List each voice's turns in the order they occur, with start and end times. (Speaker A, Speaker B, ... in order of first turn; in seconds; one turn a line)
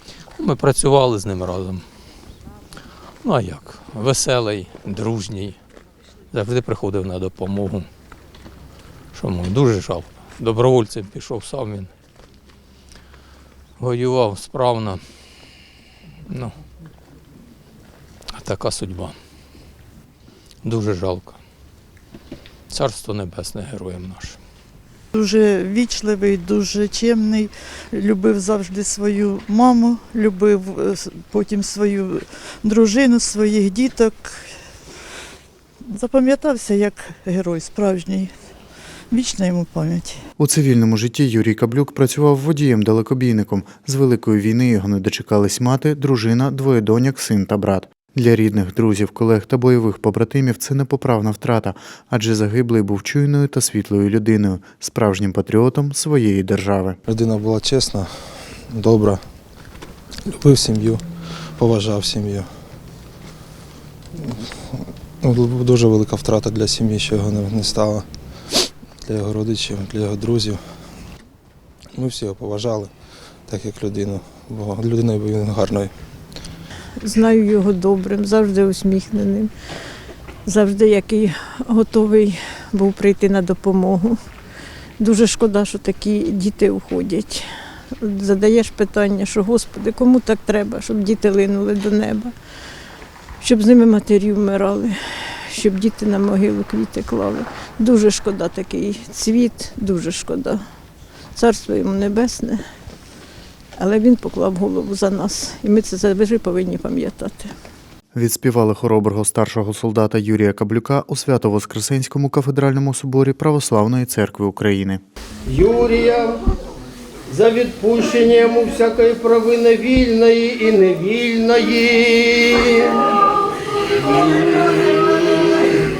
Speaker A: 0.4-1.8
Speaker A: 3.2-5.6
Speaker A: 6.3-7.9
Speaker A: 9.1-11.9
Speaker A: 13.8-15.0
Speaker A: 16.3-16.6
Speaker A: 18.3-19.2
Speaker A: 20.6-21.4
Speaker A: 22.7-24.4
Speaker B: 25.1-34.5
Speaker B: 35.9-38.3
Speaker B: 39.1-40.2
Speaker C: 40.4-57.0
Speaker D: 57.1-58.1
Speaker D: 58.7-59.2
Speaker D: 60.2-61.0
Speaker D: 61.6-62.5
Speaker D: 65.2-68.0
Speaker D: 69.0-70.6
Speaker D: 71.9-72.9
Speaker D: 73.5-75.9
Speaker E: 77.0-79.5
Speaker E: 80.5-84.2
Speaker E: 85.0-87.5
Speaker E: 88.0-92.3
Speaker E: 93.4-100.6
Speaker E: 101.3-102.6
Speaker E: 103.8-107.5
Speaker C: 108.1-115.0
Speaker F: 115.5-116.4
Speaker F: 117.3-123.0
Speaker F: 124.0-125.3